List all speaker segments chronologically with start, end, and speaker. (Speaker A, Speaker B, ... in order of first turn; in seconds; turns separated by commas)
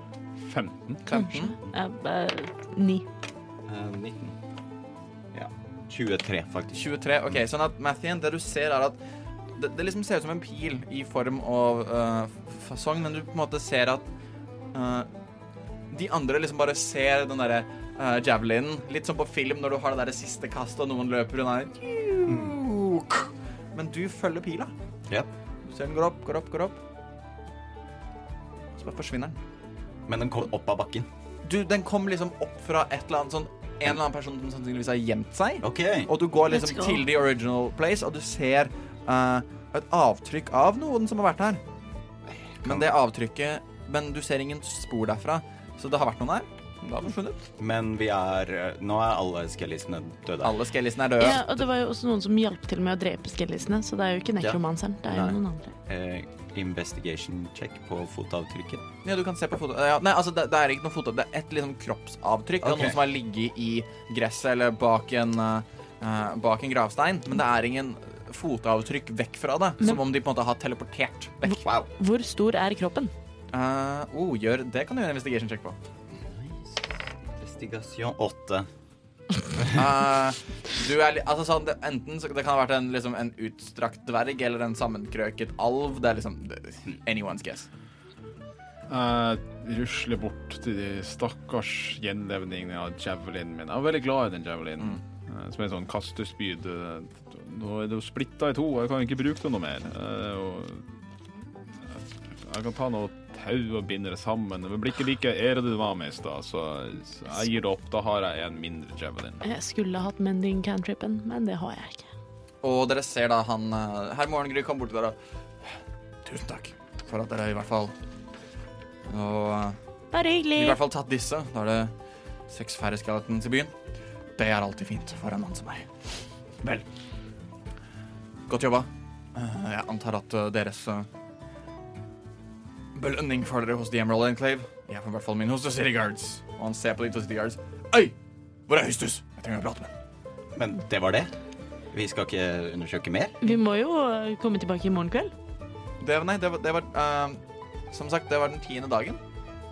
Speaker A: 0.4-1.0, Speaker B: 1.1-1.6, Speaker C: 1.1-3.0, Speaker D: 3.6-4.4, Speaker D: 5.3-6.8, Speaker B: 6.7-9.0, Speaker B: 9.6-14.1, Speaker B: 14.7-15.1, Speaker B: 15.9-24.7, Speaker D: 22.2-22.6, Speaker B: 25.6-26.8, Speaker B: 28.8-29.4, Speaker D: 30.1-31.1, Speaker B: 31.4-41.6, Speaker D: 35.6-36.1, Speaker C: 36.5-37.0, Speaker D: 42.3-42.9, Speaker B: 42.6-47.4, Speaker D: 47.6-50.6, Speaker B: 50.4-51.5, Speaker C: 51.2-55.7, Speaker D: 54.4-58.8, Speaker B: 59.0-71.6, Speaker D: 62.6-63.0, Speaker C: 71.5-73.1, Speaker D: 71.5-71.9, Speaker B: 73.5-75.8, Speaker D: 76.2-78.7, Speaker B: 79.7-87.7, Speaker A: 88.9-100.8, Speaker A: 102.4-109.4, Speaker C: 109.4-112.1, Speaker B: 112.6-115.2, Speaker B: 116.2-117.9, Speaker B: 119.1-119.8, Speaker C: 120.1-120.8, Speaker B: 120.5-121.9, Speaker B: 122.5-123.7, Speaker B: 124.4-125.9, Speaker B: 128.5-131.1, Speaker B: 132.9-138.1, Speaker B: 138.7-139.9, Speaker D: 140.5-141.3, Speaker D: 141.9-143.4, Speaker C: 143.4-145.3, Speaker B: 146.0-149.2